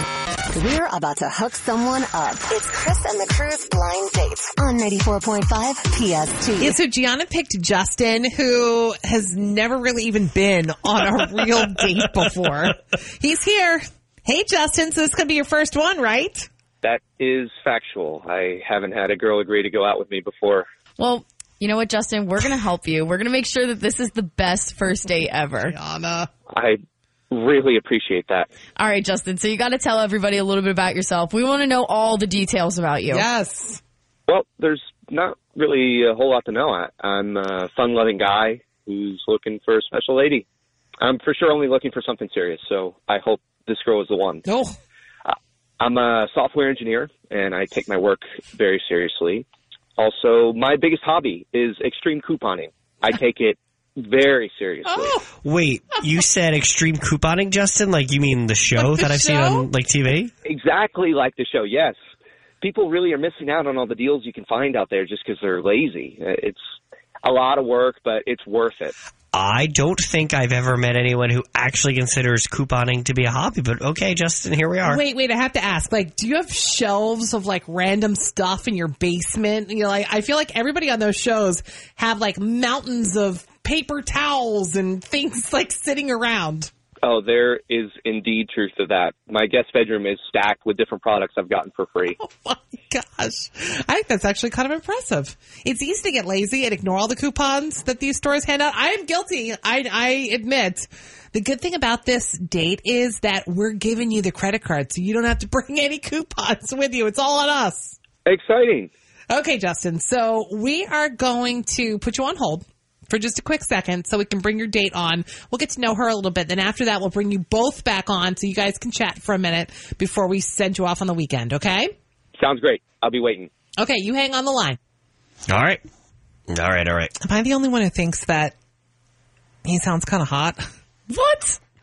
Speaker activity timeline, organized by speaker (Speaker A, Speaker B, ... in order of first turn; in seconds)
Speaker A: 0.5-6.8
Speaker B: 6.6-16.5, 25.6-26.3, 33.1-33.8, 44.4-44.7, 54.8-55.3, 58.8-59.7, 74.8-86.7, 92.2-107.9, 109.3-121.9, 123.8-124.8, 127.2-128.5, 129.6-130.7
Speaker C: 16.8-20.6, 26.5-26.8, 27.3-28.5, 34.3-40.4, 41.0-44.4, 45.2-49.4, 50.0-55.1, 60.4-61.9, 62.6-66.6, 67.2-68.9, 87.0-92.2, 108.2-108.9, 122.4-123.5
Speaker D: 21.0-25.7, 28.8-33.2, 131.1-131.6
Speaker E: 55.4-60.3, 69.3-75.0, 125.5-125.8, 126.5-127.1